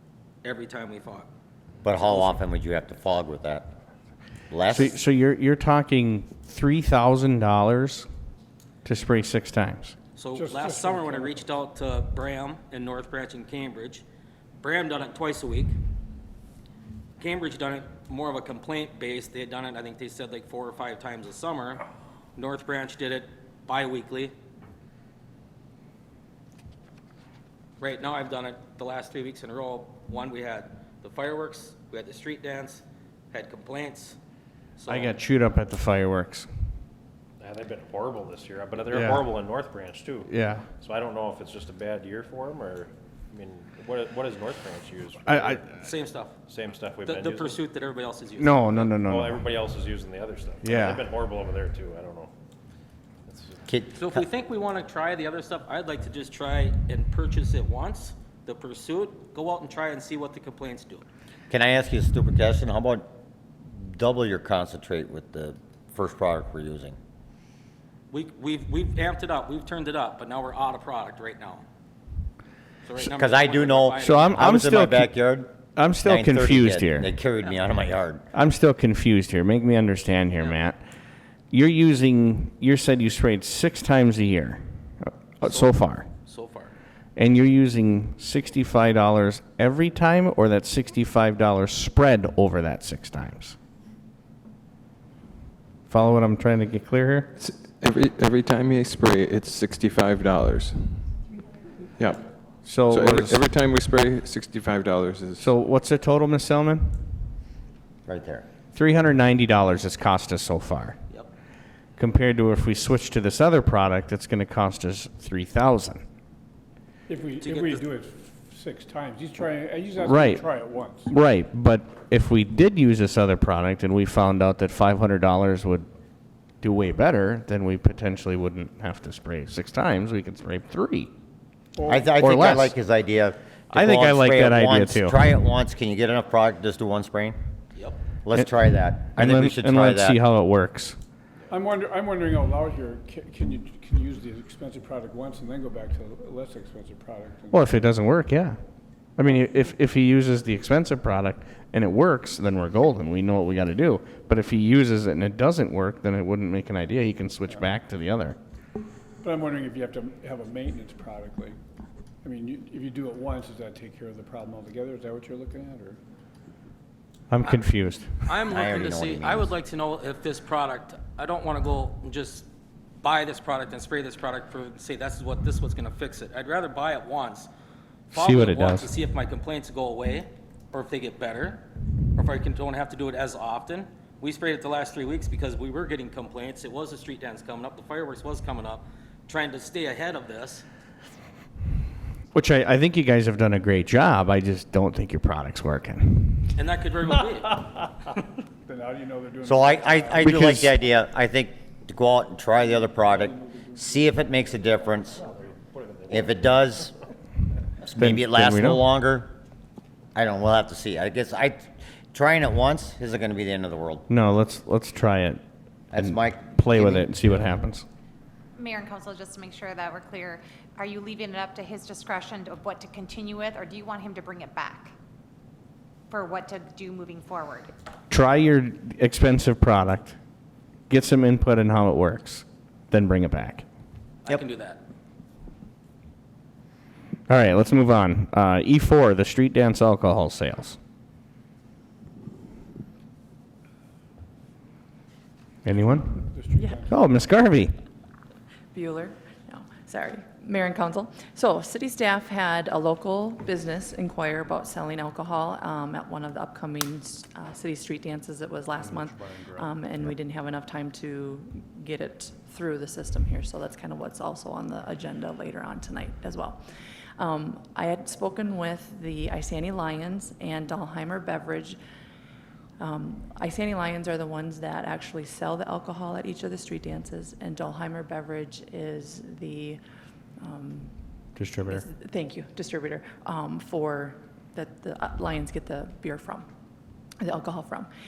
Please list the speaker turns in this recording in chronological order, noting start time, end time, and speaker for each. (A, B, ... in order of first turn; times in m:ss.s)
0:00.4-0:01.3 A
0:01.8-0:03.7 B
0:04.5-0:05.0 B
0:04.7-0:08.1 C
0:08.8-0:10.0 C
0:10.2-0:14.0 A
0:10.3-0:11.5 D
0:14.6-0:15.8 A
0:17.2-0:21.8 A
0:22.4-0:24.3 A
0:27.8-0:34.2 A
0:34.8-0:35.1 A
0:34.9-0:36.5 C
0:37.4-0:45.7 E
0:38.9-0:39.3 C
0:40.3-0:40.6 C
0:45.3-0:45.7 C
0:45.8-0:46.3 A
0:46.5-0:47.6 E
0:47.0-0:48.9 A
0:48.4-0:49.5 C
0:49.0-0:52.3 E
0:50.6-0:51.1 C
0:53.3-0:53.6 E
0:53.7-0:54.2 B
0:54.0-1:01.1 A
1:01.5-1:03.1 B
1:03.7-1:07.0 B
1:08.1-1:11.6 A
1:12.9-1:14.5 A
1:13.0-1:15.5 B
1:14.0-1:15.1 C
1:15.8-1:17.1 C
1:16.0-1:18.2 B
1:18.3-1:20.8 C
1:21.5-1:26.1 C
1:25.4-1:26.7 A
1:27.2-1:33.6 C
1:35.9-1:37.3 C
1:37.4-1:41.0 F
1:42.0-1:42.2 F
1:42.6-1:43.4 C
1:42.8-1:45.5 F
1:45.4-1:47.0 C
1:48.1-1:48.5 B
1:48.7-1:51.0 C
1:52.0-1:56.0 C
1:57.1-2:01.1 D
1:57.4-1:57.8 A
2:00.0-2:00.4 C
2:01.1-2:05.9 C
2:06.6-2:11.1 C
2:11.8-2:12.2 D
2:11.9-2:17.4 B
2:12.2-2:12.8 C
2:13.7-2:15.3 C
2:18.2-2:20.2 B
2:19.1-2:21.0 C
2:21.5-2:27.8 D
2:27.5-2:28.6 C
2:29.2-2:38.4 C
2:39.2-2:41.6 D
2:42.2-2:46.0 D
2:47.3-2:48.4 C
2:48.2-2:52.5 A
2:48.5-2:49.5 B
2:53.0-2:57.5 A
2:58.1-2:58.9 C
2:58.1-3:01.6 A
3:02.2-3:10.6 A
3:12.3-3:16.5 C
3:16.6-3:17.9 A
3:18.6-3:20.4 D
3:19.4-3:25.2 B
3:20.2-3:20.7 C
3:22.6-3:24.2 D
3:24.6-3:26.8 E
3:26.1-3:26.9 B
3:27.9-3:29.3 B
3:28.0-3:28.8 C
3:30.2-3:34.0 B
3:34.1-3:35.4 C
3:35.9-3:37.1 B
3:35.9-3:37.9 C
3:38.6-3:44.9 G
3:46.1-3:47.7 G
3:48.1-3:50.2 C
3:50.9-3:53.6 C
3:54.2-3:54.8 A
3:57.3-4:00.8 C
4:05.6-4:06.3 C
4:06.2-4:07.3 D
4:06.6-4:06.9 H
4:06.9-4:07.7 C
4:08.7-4:26.6 H
4:18.8-4:19.7 E
4:27.2-4:31.8 H
4:32.8-4:39.8 H
4:40.4-4:40.9 H
4:41.4-4:41.8 C
4:41.7-4:46.5 H
4:47.2-4:47.9 H